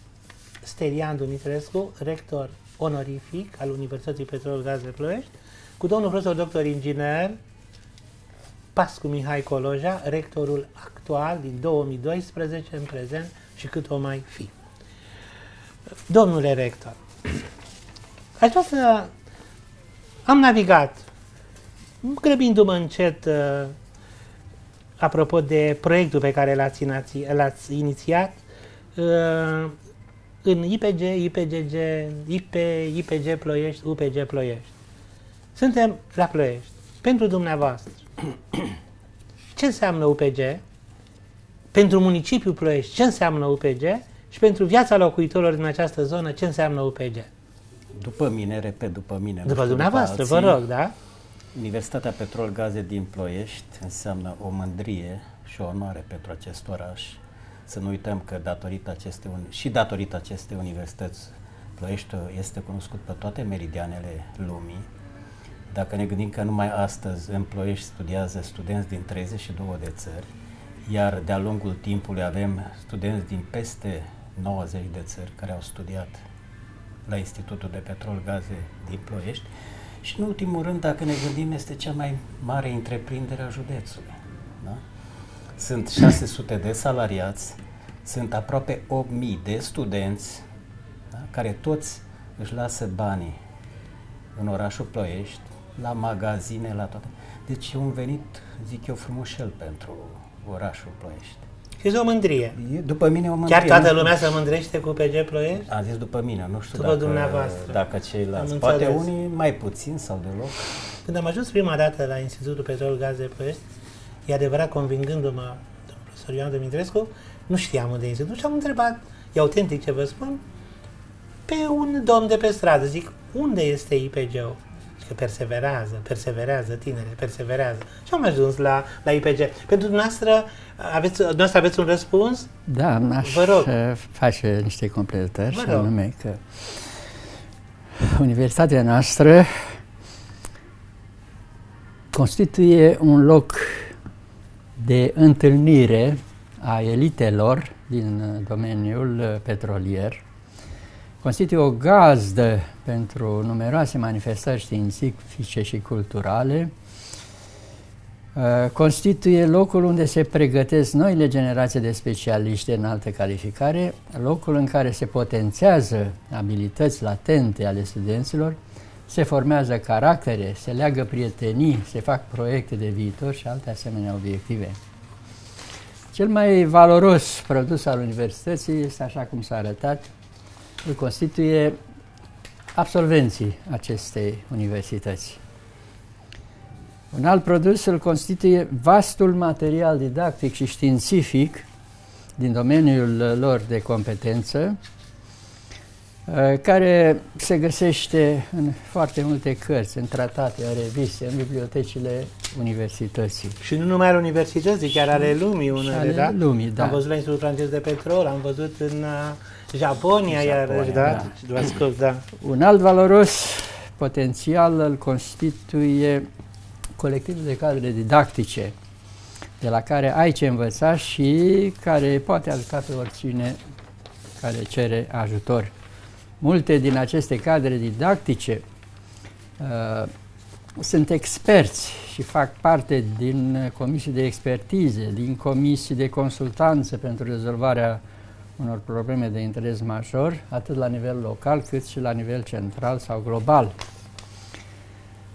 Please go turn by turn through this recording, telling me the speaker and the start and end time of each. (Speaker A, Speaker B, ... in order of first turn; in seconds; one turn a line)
Speaker A: 0.6-7.4
Speaker A: 8.8-14.5
Speaker A: 16.1-17.5
Speaker A: 18.4-19.1
Speaker A: 20.3-21.1
Speaker A: 22.0-23.8
Speaker A: 25.0-28.4
Speaker A: 28.9-29.8
Speaker A: 30.4-34.7
Speaker A: 35.5-38.0
Speaker A: 39.6-40.6
Speaker A: 41.7-47.3
Speaker B: 47.9-50.6
Speaker A: 49.5-50.9
Speaker B: 51.5-64.9
Speaker B: 65.7-70.3
Speaker B: 70.9-76.2
Speaker B: 77.1-79.5
Speaker B: 80.0-84.8
Speaker B: 85.6-90.5
Speaker B: 91.1-93.4
Speaker B: 94.3-101.5
Speaker A: 101.8-102.6
Speaker B: 102.6-104.2
Speaker A: 103.5-105.7
Speaker B: 105.7-110.7
Speaker A: 106.8-107.8
Speaker A: 108.4-109.1
Speaker A: 111.0-113.6
Speaker A: 114.3-120.4
Speaker A: 121.5-132.5
Speaker C: 132.7-137.1
Speaker A: 133.2-133.7
Speaker A: 135.5-135.9
Speaker C: 138.0-139.8
Speaker C: 142.1-143.9
Speaker C: 144.8-150.2
Speaker C: 151.2-156.7
Speaker C: 158.3-174.8
Speaker C: 176.1-180.1
Speaker C: 180.8-181.8
Speaker C: 182.8-185.4
Speaker C: 187.1-191.7
Speaker C: 192.4-194.8
Speaker C: 196.3-203.6
Speaker A: 203.6-212.3
Speaker C: 205.8-207.0
Speaker B: 210.3-211.3
Speaker C: 211.0-211.3
Speaker C: 212.4-216.3
Speaker C: 217.0-218.8
Speaker C: 219.6-223.6
Speaker C: 224.4-225.7
Speaker C: 226.4-228.7
Speaker C: 229.6-230.1
Speaker C: 230.8-238.0
Speaker C: 238.6-243.8